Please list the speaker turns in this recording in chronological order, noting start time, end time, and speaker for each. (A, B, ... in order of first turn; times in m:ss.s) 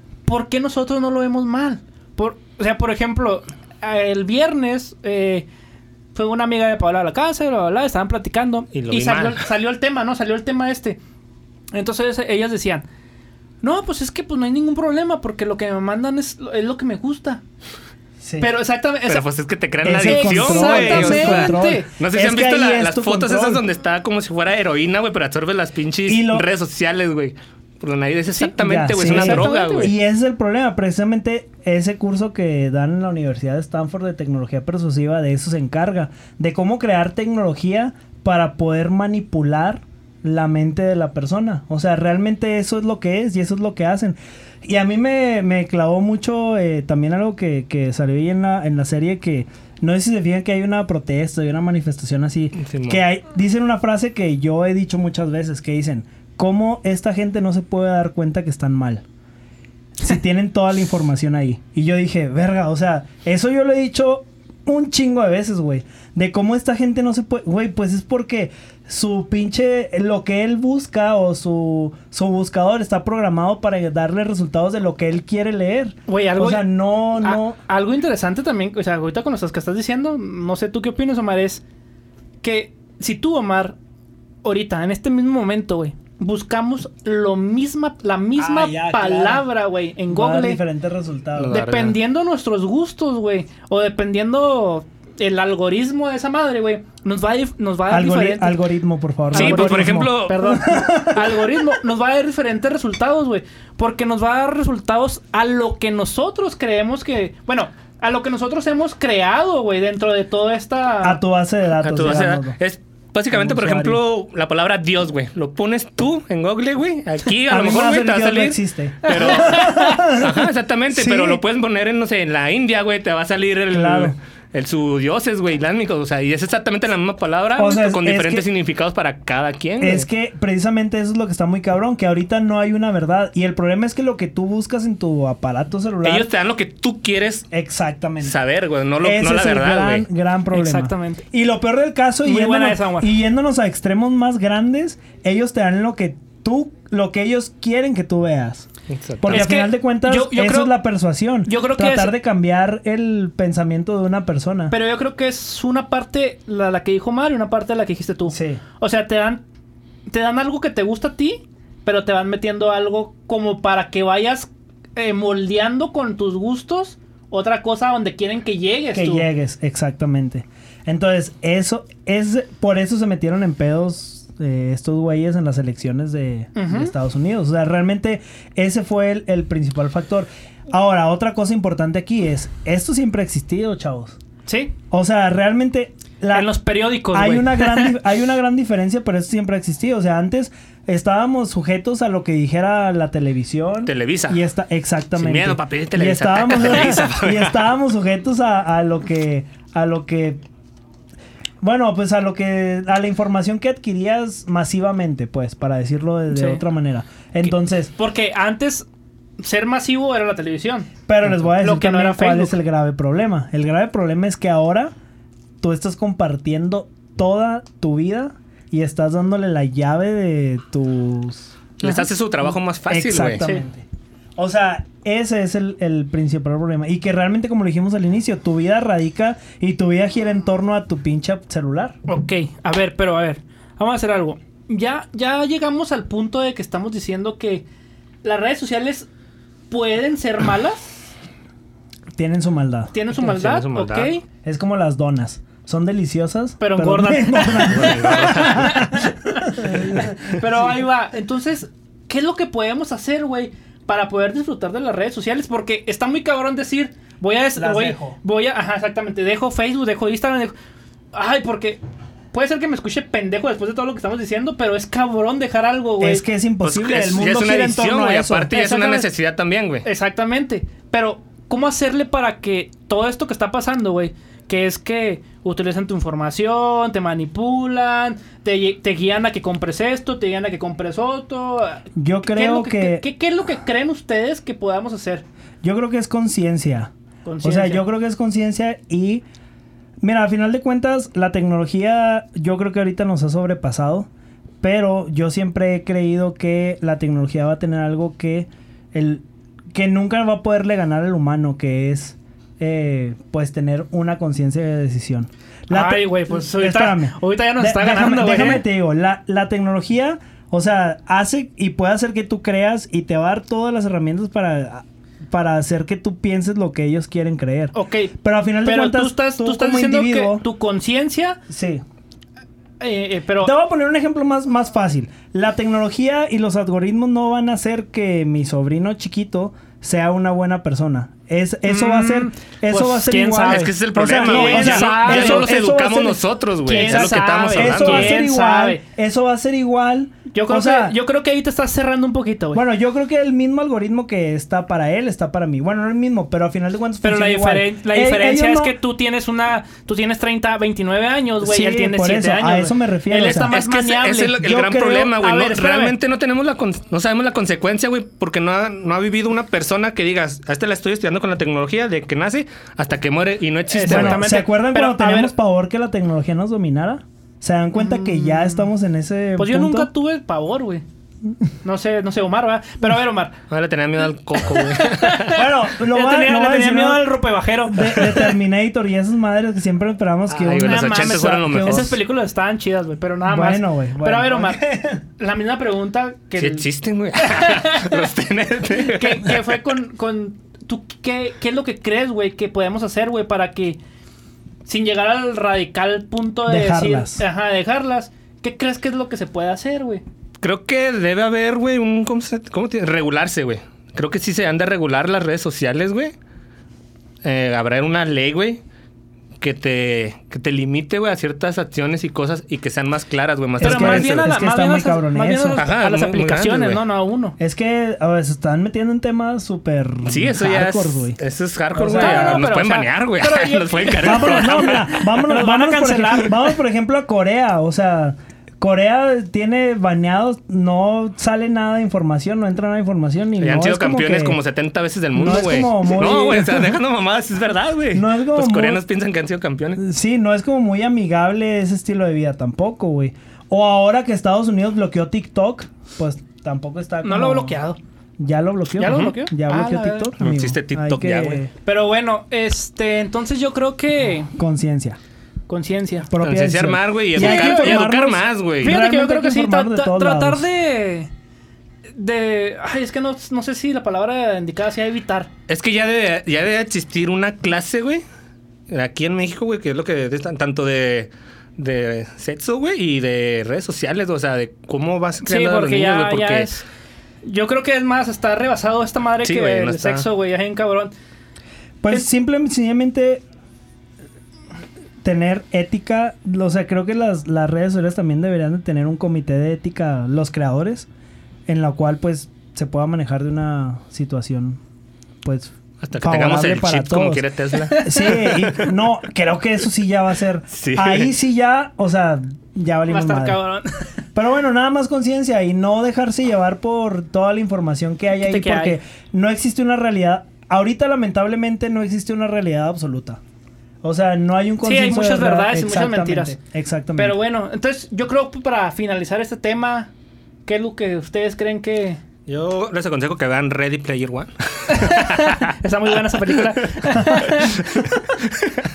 0:00.3-0:05.5 A
0:06.2-0:11.0 A
0:08.7-0:09.4 B
0:11.7-0:12.9 A
0:13.6-0:17.4 A
0:18.2-0:18.5 C
0:18.4-0:19.3 A
0:19.1-0:30.0 B
0:19.8-0:23.6 C
0:19.9-0:21.9 A
0:26.1-0:26.5 C
0:28.5-0:59.0 C
0:29.0-0:29.9 A
0:52.6-0:53.0 B
1:00.0-1:17.6 C
1:16.1-1:21.6 A
1:22.4-1:23.8 A
1:24.4-1:30.6 A
1:28.4-1:29.4 C
1:30.1-1:31.6 C
1:31.4-1:32.0 B
1:31.5-1:38.6 A
1:37.9-1:41.5 C
1:39.3-1:51.2 A
1:39.3-1:40.6 B
1:51.0-1:52.6 C
1:51.8-2:10.1 B
1:53.3-1:54.0 C
1:57.5-2:01.4 C
1:59.0-2:00.0 A
2:03.7-2:04.2 C
2:07.6-2:08.5 C
2:09.8-2:16.3 C
2:16.0-2:17.5 B
2:17.5-2:18.3 C
2:18.2-2:20.1 B
2:19.0-2:28.7 C
2:20.5-2:21.2 A
2:22.2-2:23.1 A
2:28.9-2:29.4 B
2:29.2-2:34.8 C
2:29.3-2:30.8 A
2:31.5-2:32.1 A
2:34.7-2:39.4 A
2:38.3-2:38.6 C
2:40.1-2:49.3 A
2:48.9-3:04.2 C
2:56.6-2:56.9 A
3:04.5-3:04.7 A
3:04.9-3:06.5 C
3:06.3-3:08.0 A
3:07.1-3:20.4 C
3:13.9-3:14.4 B
3:15.2-3:17.6 B
3:21.6-3:27.9 C
3:26.3-3:26.6 A
3:27.4-3:28.9 A
3:29.4-3:30.9 A
3:31.1-3:34.9 C
3:31.6-3:32.6 A
3:35.6-3:43.8 C
3:41.8-3:43.4 B
3:44.4-3:52.0 C
3:52.1-3:57.7 A
3:58.2-3:59.1 A
3:59.7-4:01.1 A
4:02.1-4:02.9 C
4:02.9-4:04.2 A
4:03.2-4:04.1 B
4:04.4-4:10.1 C
4:06.6-4:20.5 A
4:07.7-4:08.9 B
4:17.6-4:18.2 C
4:21.1-4:21.8 A
4:22.3-4:26.2 A
4:26.0-4:28.5 C
4:26.6-4:29.9 B
4:28.5-4:29.1 A
4:29.8-4:45.3 A
4:42.0-4:43.1 C
4:45.6-4:46.9 C
4:47.2-4:47.8 A
4:47.4-4:49.2 C
4:50.0-4:54.1 C
4:54.6-5:20.4 C
5:05.7-5:08.6 A
5:17.7-5:21.4 A
5:21.5-5:21.8 C
5:22.8-5:23.5 A
5:23.4-5:36.2 C
5:31.7-5:35.5 A
5:33.4-5:38.2 B
5:36.7-5:38.8 A
5:36.7-5:41.0 C
5:40.3-5:42.6 A
5:42.5-5:48.8 C
5:47.0-5:54.5 A
5:51.4-5:53.5 C
5:53.5-6:04.2 B
5:54.4-5:55.1 C
5:55.1-5:56.0 A
6:03.7-6:05.3 A
6:03.8-6:09.9 C
6:07.8-6:08.7 A
6:09.4-6:10.8 A
6:11.6-6:13.4 A
6:13.5-6:15.4 B
6:14.7-6:18.3 A
6:15.3-6:22.0 C
6:20.3-6:22.0 B
6:20.6-6:24.6 A
6:23.3-6:25.0 C
6:25.2-6:26.7 A
6:26.4-6:29.4 B
6:27.2-6:28.0 A
6:28.7-6:33.8 A
6:34.7-6:40.0 A
6:36.5-6:37.2 C
6:40.4-6:46.1 B
6:47.2-6:48.6 B
6:49.4-6:54.3 B
6:53.6-6:55.6 C
6:53.6-6:57.4 A
6:55.6-6:56.8 B
6:57.4-7:01.2 C
7:00.1-7:04.9 B
7:01.8-7:02.5 C
7:01.9-7:06.5 A
7:04.0-7:14.4 C
7:13.4-7:19.8 B
7:15.2-7:16.8 C
7:17.9-7:18.8 C
7:19.8-7:27.6 C
7:27.0-7:27.8 A
7:28.2-7:31.5 C
7:28.8-7:30.1 A
7:30.2-7:31.4 B
7:31.6-7:34.3 A
7:34.4-7:35.0 C
7:35.5-7:36.1 A
7:36.1-7:40.5 C
7:36.2-7:38.8 B
7:37.2-7:37.9 A
7:38.6-7:41.1 A
7:41.9-7:45.3 A
7:45.5-7:48.0 B
7:48.7-7:56.6 B
7:55.2-7:56.6 A
7:57.2-8:00.9 A
7:59.2-8:00.1 B
8:01.8-8:03.2 C
8:05.0-8:10.9 C
8:11.5-8:14.6 C
8:15.2-8:17.2 C
8:15.8-8:17.8 B
8:17.6-8:18.7 A
8:17.8-8:23.4 C
8:20.5-8:21.1 B
8:22.9-8:23.9 A
8:24.1-8:33.2 C
8:28.2-8:28.8 A
8:33.8-8:37.2 C
8:34.6-8:36.4 A
8:37.0-8:39.9 A
8:40.5-8:42.0 A
8:42.3-8:45.4 B
8:44.7-8:47.6 A
8:47.8-8:48.5 B